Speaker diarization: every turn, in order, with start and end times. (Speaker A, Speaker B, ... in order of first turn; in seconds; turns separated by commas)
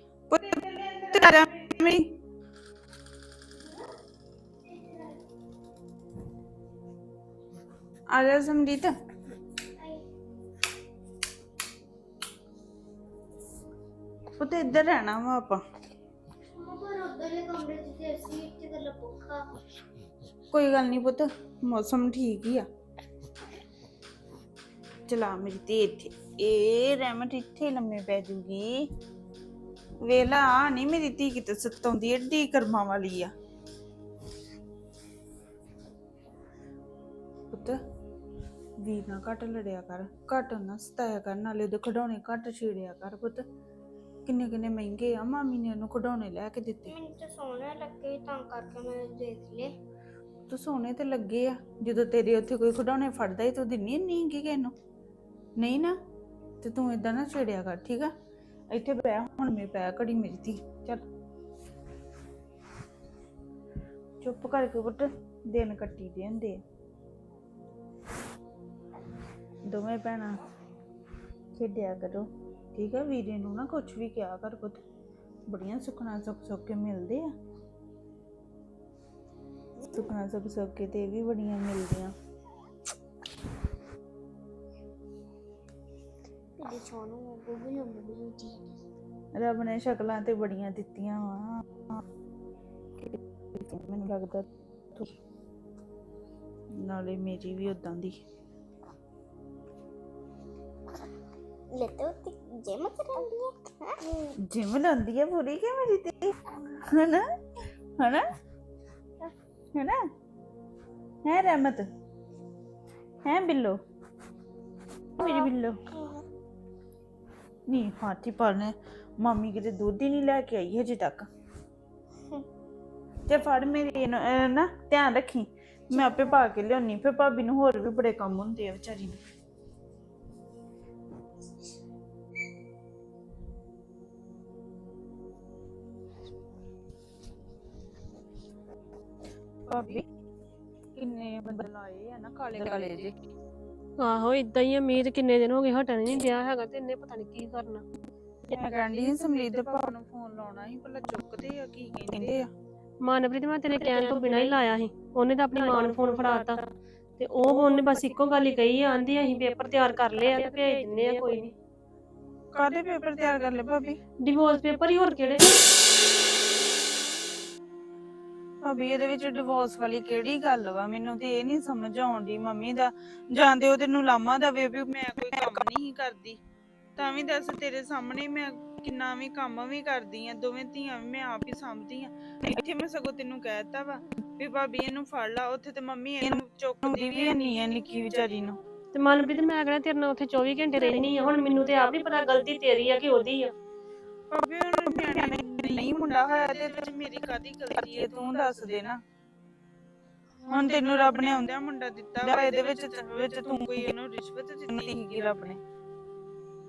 Speaker A: 0.3-2.0, Speaker A: 8.1-8.9, Speaker A: 14.4-15.6, Speaker B: 16.6-19.4, Speaker A: 20.5-22.6, Speaker A: 25.1-28.8, Speaker A: 30.0-33.3, Speaker A: 37.5-37.8, Speaker A: 38.8-43.4, Speaker A: 44.3-46.9, Speaker B: 46.9-49.7, Speaker A: 50.5-54.7, Speaker A: 55.6-56.0, Speaker A: 56.6-58.1, Speaker A: 58.7-61.0, Speaker A: 64.2-66.6, Speaker A: 69.7-70.3, Speaker A: 71.5-74.8, Speaker A: 75.5-77.3, Speaker A: 79.9-82.1, Speaker B: 86.6-88.7, Speaker A: 89.3-92.0, Speaker A: 93.0-95.1, Speaker A: 96.8-98.2, Speaker B: 101.7-104.0, Speaker A: 104.5-106.3, Speaker A: 106.9-107.2, Speaker A: 111.3-111.9, Speaker A: 113.2-113.8, Speaker A: 115.2-115.8, Speaker A: 117.7-121.3, Speaker A: 123.3-129.2, Speaker A: 139.7-140.1, Speaker A: 141.0-143.2, Speaker C: 144.0-147.8, Speaker A: 148.5-152.5, Speaker C: 153.0-161.5, Speaker A: 162.5-164.0, Speaker C: 164.2-165.6, Speaker A: 168.6-176.4, Speaker A: 177.0-188.6, Speaker C: 188.9-193.5, Speaker A: 194.3-199.0, Speaker A: 200.5-205.6